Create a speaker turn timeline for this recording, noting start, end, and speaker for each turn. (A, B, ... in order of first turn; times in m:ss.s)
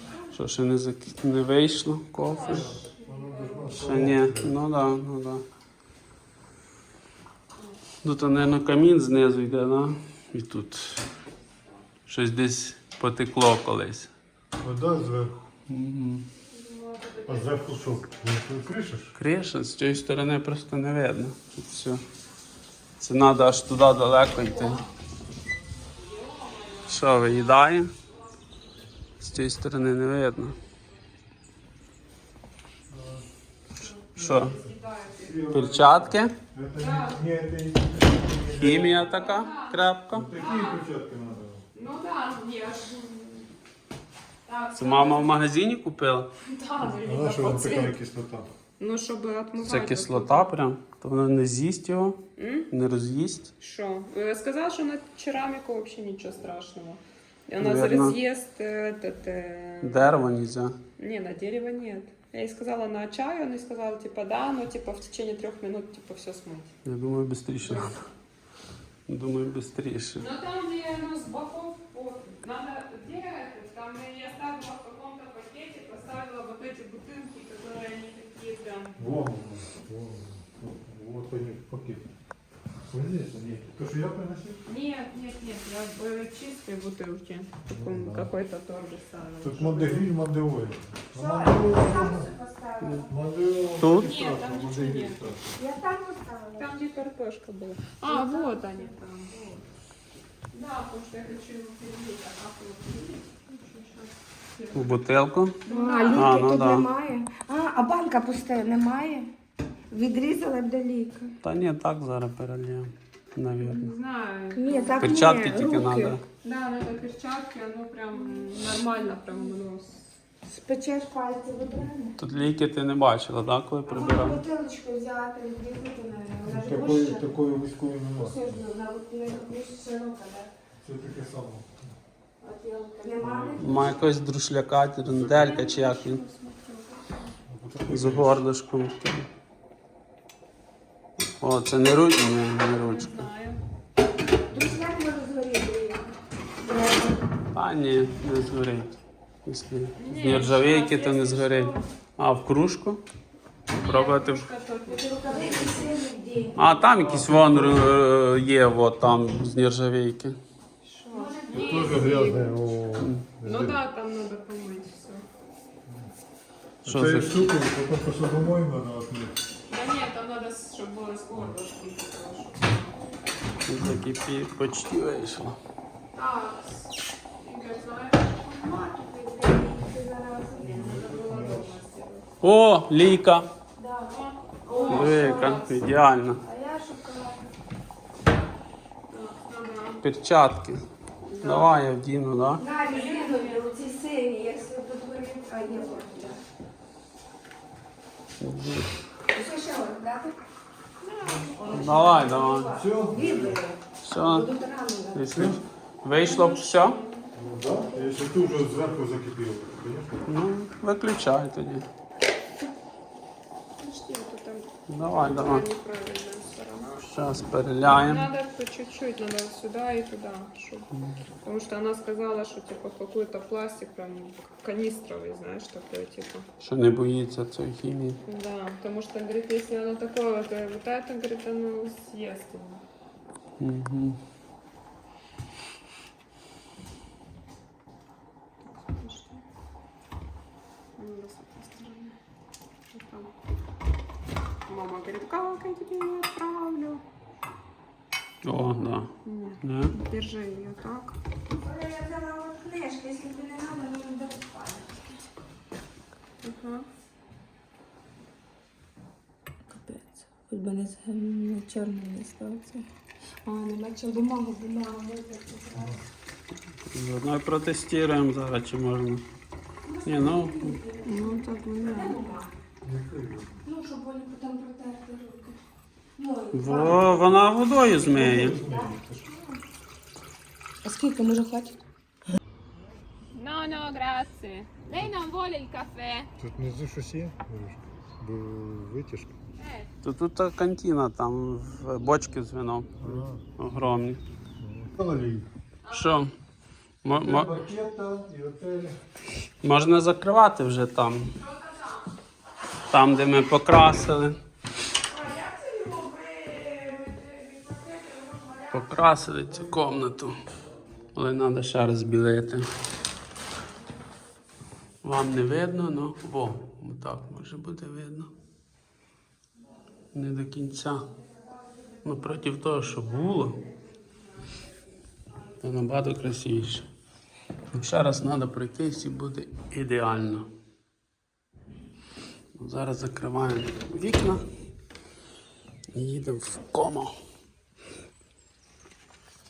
0:00.3-0:02.8 A
0:02.2-0:03.8 B
0:02.5-0:04.5 C
0:03.7-0:05.4 A
0:08.0-0:11.1 A
0:12.1-0:14.1 A
0:14.6-0:15.4 C
0:15.7-0:16.3 A
0:16.5-0:18.0 B
0:17.3-0:19.2 C
0:19.2-0:22.0 A
0:23.0-0:24.8 A
0:24.5-0:24.8 B
0:25.9-0:27.6 B
0:26.9-0:27.9 A
0:29.2-0:30.6 A
0:32.9-0:33.2 C
0:33.8-0:35.4 B
0:34.2-0:34.6 A
0:35.2-0:39.1 C
0:35.5-0:36.4 A
0:36.8-0:37.2 B
0:38.5-0:40.3 A
0:39.0-0:39.8 B
0:40.1-0:41.6 C
0:40.4-0:40.8 B
0:41.8-0:43.5 B
0:44.5-0:45.4 B
0:44.8-0:46.3 A
0:46.4-0:48.0 B
0:46.9-0:48.5 C
0:48.8-0:50.6 B
0:49.6-0:53.5 A
0:52.4-0:52.7 B
0:53.6-1:00.2 B
0:57.6-0:58.2 A
0:59.8-1:00.8 A
1:01.0-1:06.7 B
1:06.8-1:08.0 A
1:07.6-1:07.9 B
1:09.1-1:10.2 A
1:10.2-1:19.0 B
1:19.0-1:22.0 C
1:22.9-1:24.6 C
1:24.6-1:30.1 B
1:27.7-1:28.3 C
1:29.4-1:32.3 C
1:31.1-1:33.2 D
1:32.8-1:33.1 A
1:33.1-1:35.6 C
1:33.8-1:34.1 A
1:34.0-1:35.3 B
1:35.6-1:36.7 D
1:36.6-1:39.6 B
1:38.1-1:39.0 D
1:40.5-1:45.0 B
1:44.7-1:46.9 A
1:45.6-1:46.4 B
1:45.7-1:49.3 D
1:49.9-1:51.4 D
1:51.4-1:53.9 A
1:53.6-1:55.2 B
1:54.5-1:56.2 D
1:55.0-1:56.2 A
1:56.4-2:00.0 B
1:58.2-1:59.5 D
2:00.4-2:02.2 D
2:02.2-2:04.4 A
2:03.9-2:07.3 D
2:06.5-2:08.4 C
2:08.2-2:10.5 D
2:10.8-2:11.9 C
2:12.4-2:13.1 B
2:13.0-2:14.0 D
2:13.2-2:14.0 C
2:13.6-2:16.2 A
2:15.1-2:15.5 C
2:15.3-2:17.3 B
2:17.5-2:18.3 C
2:17.9-2:19.3 A
2:21.2-2:23.2 A
2:22.7-2:23.6 B
2:24.5-2:27.2 D
2:27.5-2:33.0 A
2:30.0-2:31.8 B
2:33.7-2:35.9 B
2:33.8-2:34.4 A
2:34.9-2:36.6 D
2:36.6-2:40.4 A
2:37.0-2:37.9 C
2:40.8-2:42.4 B
2:41.1-2:42.5 D
2:41.5-2:43.8 C
2:43.0-2:43.3 A
2:43.4-2:45.2 B
2:46.8-2:47.5 A
2:46.8-2:49.4 C
2:49.7-2:53.1 B
2:53.7-2:55.6 A
2:56.2-2:58.9 B
2:58.6-3:01.0 D
3:00.6-3:01.7 C
3:00.7-3:02.3 B
3:02.4-3:03.5 A
3:03.8-3:05.6 D
3:04.1-3:05.9 B
3:04.8-3:06.4 A
3:06.4-3:07.5 D
3:09.1-3:10.0 B
3:10.0-3:10.8 A
3:11.2-3:11.8 B
3:11.4-3:12.6 A
3:12.6-3:16.4 D
3:12.8-3:13.7 B
3:15.7-3:16.1 B
3:18.4-3:18.9 A
3:19.3-3:20.4 D
3:21.0-3:22.4 B
3:21.4-3:25.3 D
3:21.7-3:22.8 A
3:22.7-3:23.6 C
3:24.0-3:24.5 A
3:25.1-3:27.0 A
3:25.3-3:25.6 C
3:26.1-3:27.3 B
3:27.4-3:30.3 C
3:30.3-3:31.9 A
3:33.8-3:34.7 B
3:34.9-3:35.6 A
3:35.2-3:37.1 B
3:37.0-3:38.3 A
3:37.8-3:40.9 B
3:41.4-3:46.4 B
3:46.6-3:48.2 A
3:48.2-3:52.8 B
3:53.6-3:54.2 A
3:58.6-3:59.4 B
4:01.0-4:02.2 B
4:02.9-4:03.3 B
4:04.7-4:07.0 B
4:08.4-4:10.0 A
4:08.5-4:11.2 B
4:11.5-4:15.2 D
4:16.4-4:16.9 B
4:19.7-4:22.9 D
4:23.4-4:26.0 D
4:26.9-4:29.2 A
4:29.9-4:32.5 D
4:30.0-4:30.8 A
4:31.0-4:32.2 B
4:32.8-4:33.6 C
4:33.6-4:35.6 D
4:36.2-4:37.3 D
4:36.5-4:38.6 A
4:38.1-4:39.6 D
4:38.3-4:39.2 C
4:40.8-4:41.8 D
4:43.3-4:46.3 B
4:46.4-4:49.3 C
4:49.6-4:49.9 B
4:50.0-4:54.2 A
4:53.0-4:53.5 C
4:54.6-4:55.5 C
4:55.9-4:56.2 B
4:55.9-4:56.3 A
4:57.0-4:57.6 A
4:57.1-4:59.0 C
4:59.6-5:01.4 A
5:01.6-5:01.9 B
5:02.9-5:04.4 A
5:05.1-5:08.9 D
5:08.7-5:10.4 A
5:11.1-5:12.7 A
5:15.0-5:18.3 A
5:20.1-5:21.1 A
5:22.0-5:23.6 A
5:25.6-5:26.9 A
5:27.7-5:30.5 A
5:32.6-5:34.4 A
5:35.9-5:37.2 A